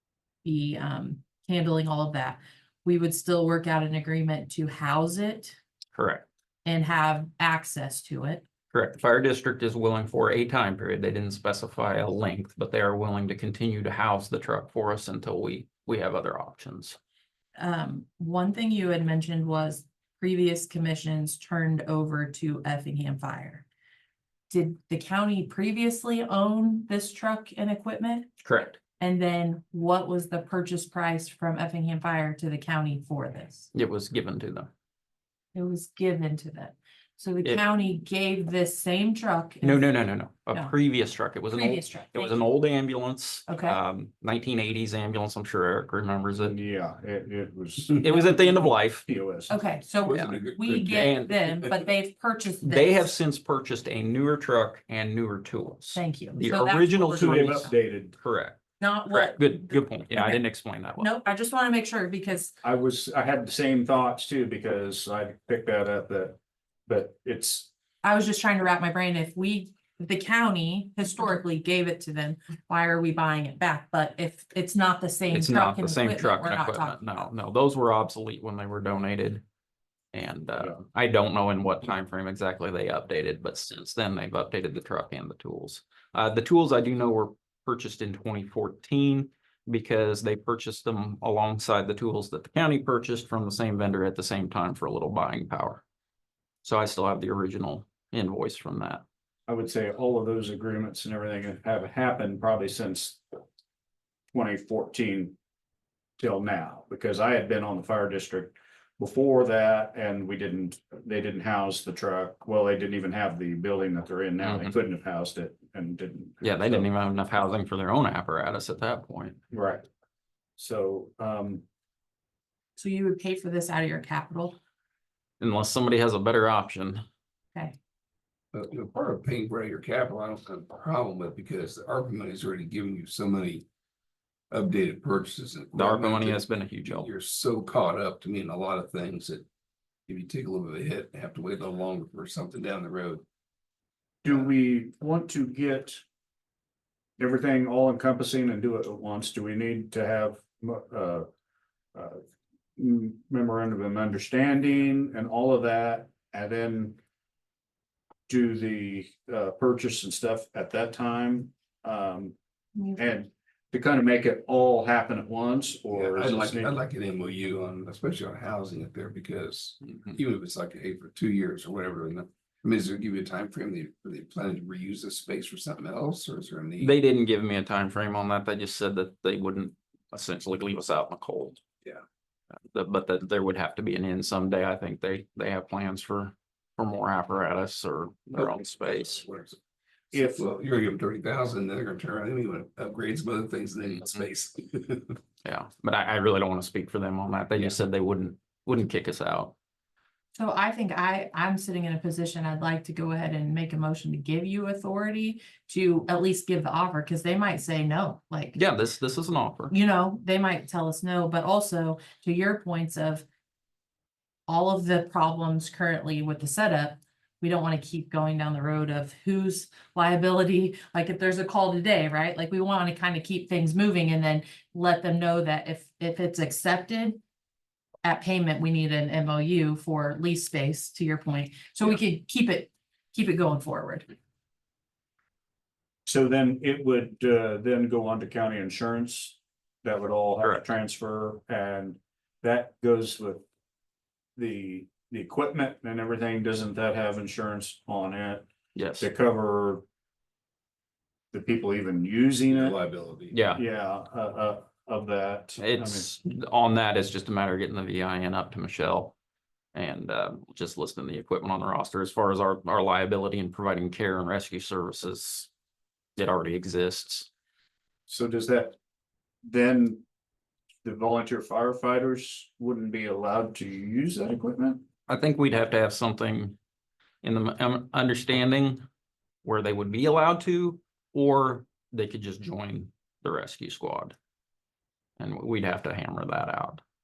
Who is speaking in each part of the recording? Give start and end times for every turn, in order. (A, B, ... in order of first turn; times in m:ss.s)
0:00.4-0:05.6 A
0:05.9-0:06.2 B
0:06.6-0:08.4 A
0:08.7-0:17.0 B
0:17.6-0:23.6 A
0:24.5-0:28.3 A
0:28.4-0:28.8 B
0:29.0-0:33.7 A
0:33.7-0:34.7 B
0:35.5-0:39.9 A
0:39.6-0:46.6 B
0:41.5-0:42.4 A
0:43.5-0:43.8 A
0:46.4-0:49.6 C
0:48.0-0:49.0 B
0:49.5-0:53.1 A
0:50.0-0:51.8 D
0:50.2-0:51.4 B
0:52.6-1:01.1 B
0:55.9-0:57.7 A
0:57.2-0:58.1 C
0:58.8-1:00.4 A
1:01.0-1:02.5 A
1:02.6-1:07.7 C
1:08.0-1:17.2 A
1:15.3-1:19.4 B
1:20.1-1:35.8 B
1:36.6-1:39.0 B
1:39.5-1:43.2 C
1:44.3-1:45.4 C
1:46.2-1:56.9 C
1:54.4-1:54.7 B
1:56.4-1:59.4 B
1:59.5-1:59.8 C
2:00.6-2:01.6 C
2:02.8-2:04.6 A
2:05.4-2:07.0 B
2:08.5-2:13.6 D
2:14.5-2:19.4 D
2:15.7-2:17.1 B
2:20.1-2:23.2 D
2:24.2-2:26.0 C
2:27.2-2:31.2 C
2:31.9-2:32.2 C
2:32.8-2:37.0 C
2:38.3-2:42.4 C
2:42.7-2:43.2 A
2:43.0-2:46.8 C
2:45.9-2:56.9 D
2:56.8-3:01.6 B
3:02.7-3:09.2 B
3:08.4-3:09.6 D
3:10.1-3:15.2 D
3:10.1-3:10.4 C
3:15.4-3:19.5 B
3:20.3-3:28.6 A
3:28.5-3:29.7 B
3:29.7-3:33.2 A
3:34.5-3:47.2 A
3:48.0-3:54.0 A
3:56.0-4:03.4 C
4:04.4-4:08.4 C
4:08.7-4:09.1 B
4:09.0-4:09.8 C
4:11.3-4:12.8 C
4:12.5-4:13.4 D
4:13.3-4:13.6 B
4:13.5-4:16.1 C
4:15.6-4:19.1 B
4:19.7-4:25.5 B
4:26.2-4:27.3 B
4:28.1-4:28.7 C
4:29.4-4:30.0 C
4:30.8-4:34.8 C
4:35.1-4:36.6 B
4:37.2-4:38.8 B
4:39.4-4:44.1 B
4:45.2-4:46.8 B